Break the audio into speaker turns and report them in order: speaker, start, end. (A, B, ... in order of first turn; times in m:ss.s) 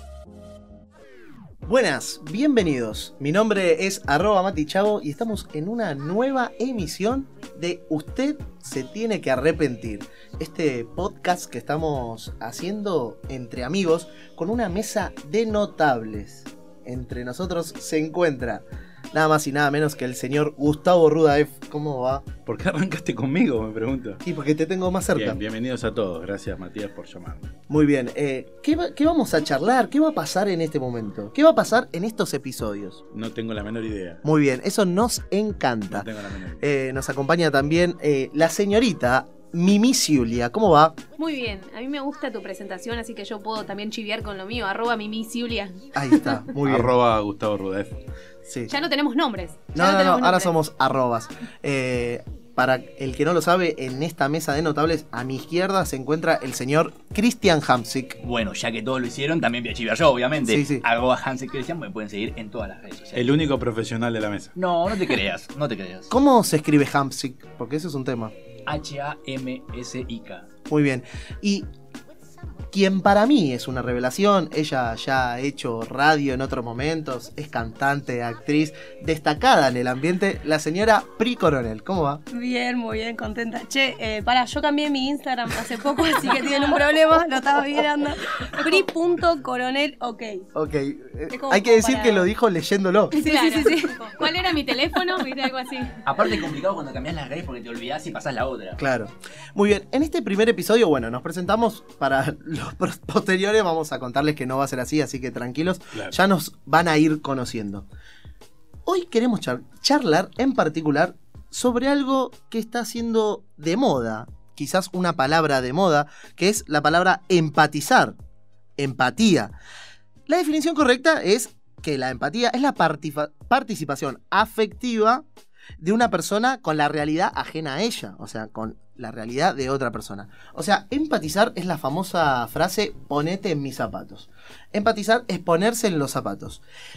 0:01.7-0:22.3 A
0:22.5-0:24.2 B
0:24.2-0:25.4 A
0:25.2-0:27.6 B
0:27.7-0:33.0 A
0:33.1-0:34.2 B
0:34.2-0:41.0 A
0:35.9-0:36.6 B
0:41.2-0:46.4 C
0:46.0-0:46.9 A
0:46.6-0:48.0 B
0:48.5-0:48.7 A
0:48.7-0:50.6 C
0:49.7-0:58.2 A
0:58.2-1:03.4 D
1:00.4-1:00.8 A
1:03.2-1:04.5 B
1:04.6-1:06.1 D
1:06.1-1:08.3 A
1:08.7-1:10.5 D
1:10.7-1:11.7 A
1:12.7-1:22.2 A
1:22.3-1:30.5 E
1:26.2-1:26.8 C
1:28.5-1:28.8 C
1:30.5-1:33.2 A
1:31.3-1:32.3 E
1:33.1-1:36.0 C
1:33.2-1:34.2 E
1:36.0-1:38.8 D
1:38.8-1:47.9 A
1:48.9-1:58.2 A
1:58.8-1:59.6 A
2:00.3-2:05.2 A
2:05.8-2:16.6 A